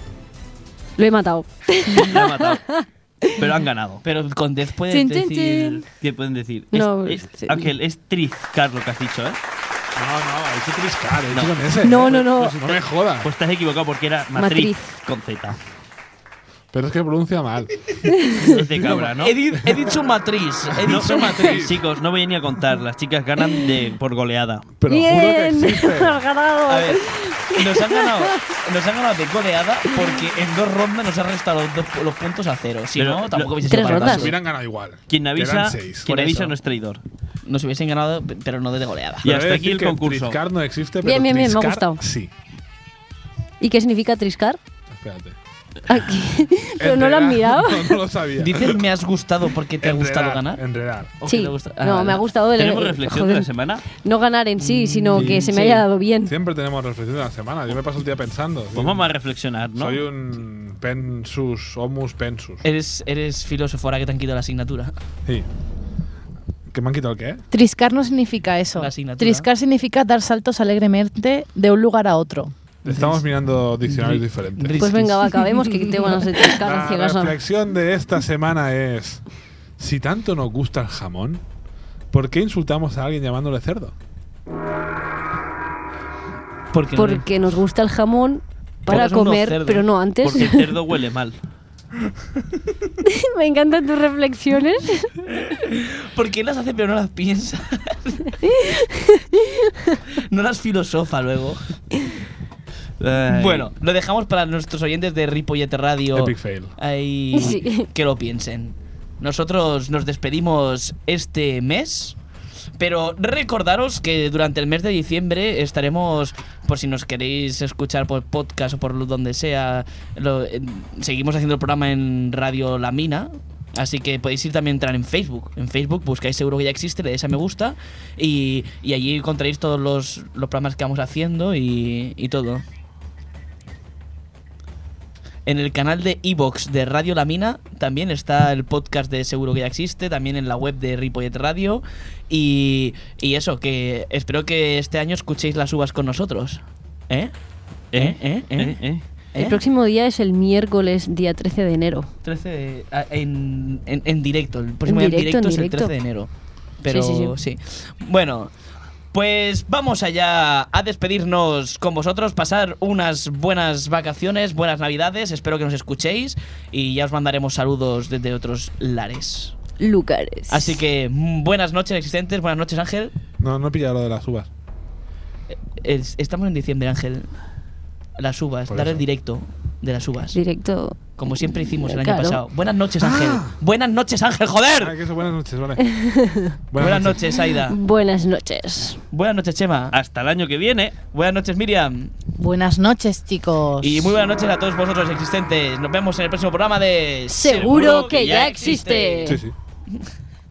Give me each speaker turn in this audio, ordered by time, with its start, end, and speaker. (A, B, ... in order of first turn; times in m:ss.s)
0:01.0-0:03.4 A
0:01.9-0:02.6 B
0:03.3-0:04.0 B
0:04.0-0:05.8 C
0:04.9-0:05.8 A
0:05.3-0:05.8 D
0:05.9-0:09.4 B
0:06.7-0:07.7 A
0:10.0-0:13.3 E
0:11.3-0:15.6 B
0:11.8-0:12.6 A
0:14.4-0:14.9 A
0:16.7-0:20.0 E
0:18.1-0:18.4 A
0:18.4-0:19.4 B
0:19.1-0:21.6 C
0:20.7-0:21.8 E
0:20.8-0:24.7 B
0:24.8-0:26.2 E
0:24.9-0:28.4 A
0:26.7-0:34.3 C
0:33.0-0:33.6 B
0:33.7-0:34.3 A
0:33.8-0:36.1 E
0:35.1-0:37.0 B
0:36.1-0:36.6 C
0:37.5-0:39.3 C
0:39.2-0:40.4 B
0:39.2-0:42.3 E
0:41.0-0:42.0 A
0:43.6-0:44.6 A
0:44.9-0:45.4 E
0:45.9-0:48.0 A
0:46.8-0:48.8 E
0:48.4-0:50.6 C
0:49.8-0:51.1 E
0:51.2-0:52.2 C
0:51.2-0:56.3 A
0:52.6-0:53.8 B
0:54.6-0:55.8 C
0:55.2-0:55.7 E
0:56.3-0:59.0 E
0:58.8-1:00.0 B
0:59.8-1:02.6 E
1:02.6-1:04.9 C
1:06.7-1:07.4 E
1:07.5-1:12.5 D
1:08.8-1:09.5 C
1:12.8-1:13.2 C
1:12.8-1:15.0 E
1:13.9-1:15.9 C
1:14.8-1:17.4 A
1:16.6-1:19.2 E
1:19.8-1:21.4 E
1:22.1-1:23.9 E
1:26.7-1:27.3 C
1:27.0-1:30.7 A
1:28.9-1:29.9 C
1:30.2-1:31.4 B
1:33.0-1:35.1 A
1:35.4-1:38.4 C
1:38.4-1:40.0 A
1:40.1-1:41.6 C
1:43.0-1:43.7 B
1:43.3-1:52.2 C
1:46.1-1:46.8 E
1:47.3-1:47.9 A
1:52.8-2:12.6 C
2:15.4-2:27.3 C
2:27.9-2:29.0 B
2:27.9-2:28.8 C
2:29.3-2:29.6 C
2:29.4-2:32.1 A
2:32.2-2:36.3 C
2:34.9-2:35.9 A
2:36.8-2:38.5 C
2:36.9-2:37.4 A
2:39.1-2:49.6 C
2:49.8-2:50.8 A
2:50.5-2:53.1 C
2:53.4-2:54.5 E
2:55.5-2:57.3 C
2:58.2-3:00.4 C
2:58.7-2:59.0 E
3:00.3-3:02.4 A
3:01.2-3:05.0 C
3:03.0-3:03.6 E
3:04.8-3:05.8 E
3:05.8-3:06.6 A
3:06.7-3:07.3 E
3:06.8-3:07.8 C
3:07.6-3:09.0 A
3:09.1-3:10.0 C
3:09.9-3:11.0 B
3:11.1-3:12.2 C
3:12.4-3:14.1 D
3:13.8-3:19.4 C
3:17.3-3:19.4 A
3:17.5-3:18.8 B
3:19.2-3:19.6 E